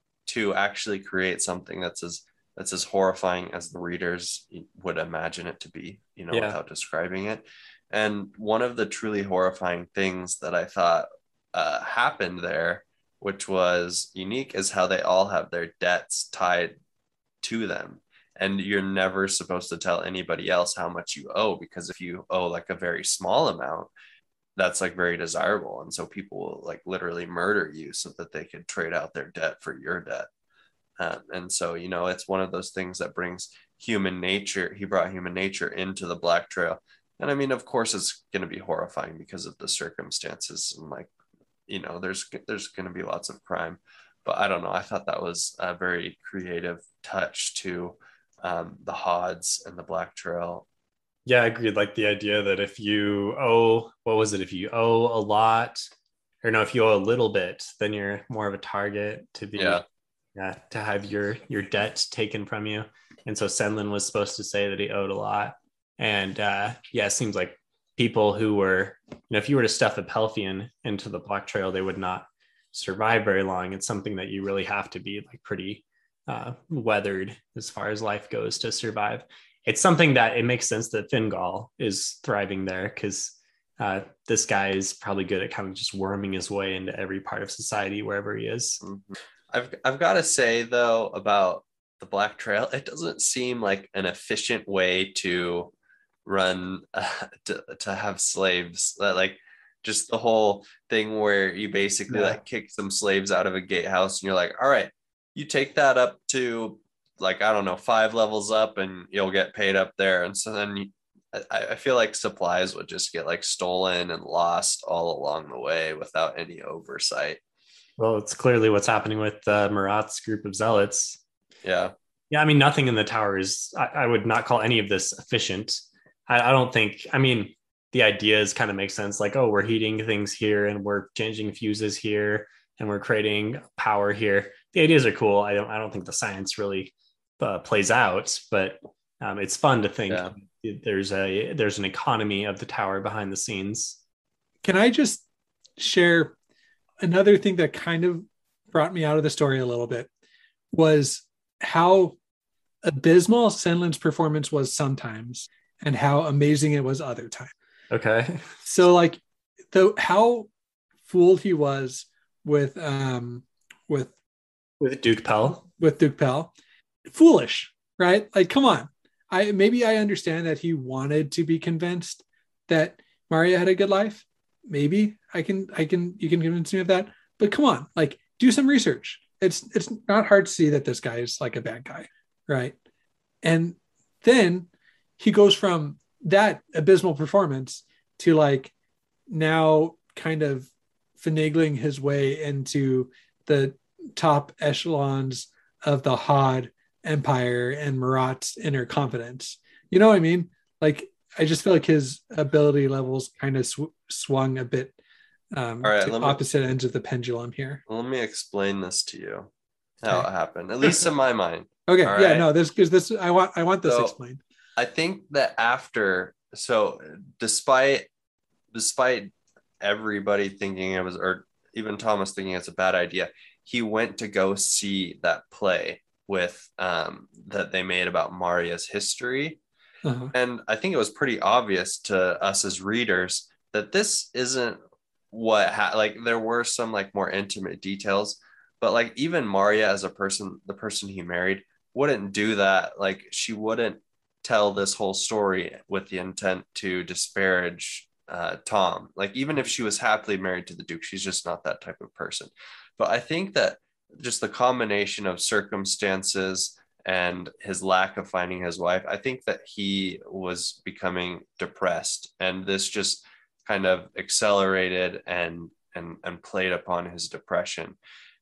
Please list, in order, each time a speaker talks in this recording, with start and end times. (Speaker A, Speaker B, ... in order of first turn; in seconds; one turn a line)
Speaker A: 0.2-16.8
Speaker B: 6.3-6.6
Speaker A: 17.4-23.9
Speaker A: 24.6-30.3
Speaker A: 31.0-41.1
Speaker A: 41.7-50.6
Speaker B: 51.2-55.8
Speaker B: 56.4-59.8
Speaker A: 59.5-59.8
Speaker B: 60.4-88.8
Speaker A: 88.8-95.7
Speaker A: 96.2-117.4
Speaker B: 102.1-102.4
Speaker B: 118.0-121.2
Speaker A: 121.6-121.9
Speaker B: 122.3-144.0
Speaker A: 140.1-140.3
Speaker C: 144.6-145.2
Speaker C: 145.8-146.3
Speaker C: 147.0-150.1
Speaker C: 150.7-152.2
Speaker C: 152.8-157.5
Speaker B: 157.9-158.5
Speaker C: 158.6-159.2
Speaker C: 159.7-160.5
Speaker C: 161.0-164.1
Speaker B: 164.8-165.6
Speaker C: 165.5-166.5
Speaker C: 167.1-182.8
Speaker C: 183.4-188.7
Speaker C: 189.3-204.9
Speaker C: 205.5-207.8
Speaker A: 205.8-206.4
Speaker A: 207.9-209.5
Speaker A: 210.0-212.5
Speaker C: 211.9-214.4
Speaker A: 213.8-214.1
Speaker A: 214.8-218.1
Speaker A: 218.7-229.6
Speaker C: 230.0-230.3
Speaker A: 230.3-234.8
Speaker A: 235.3-268.0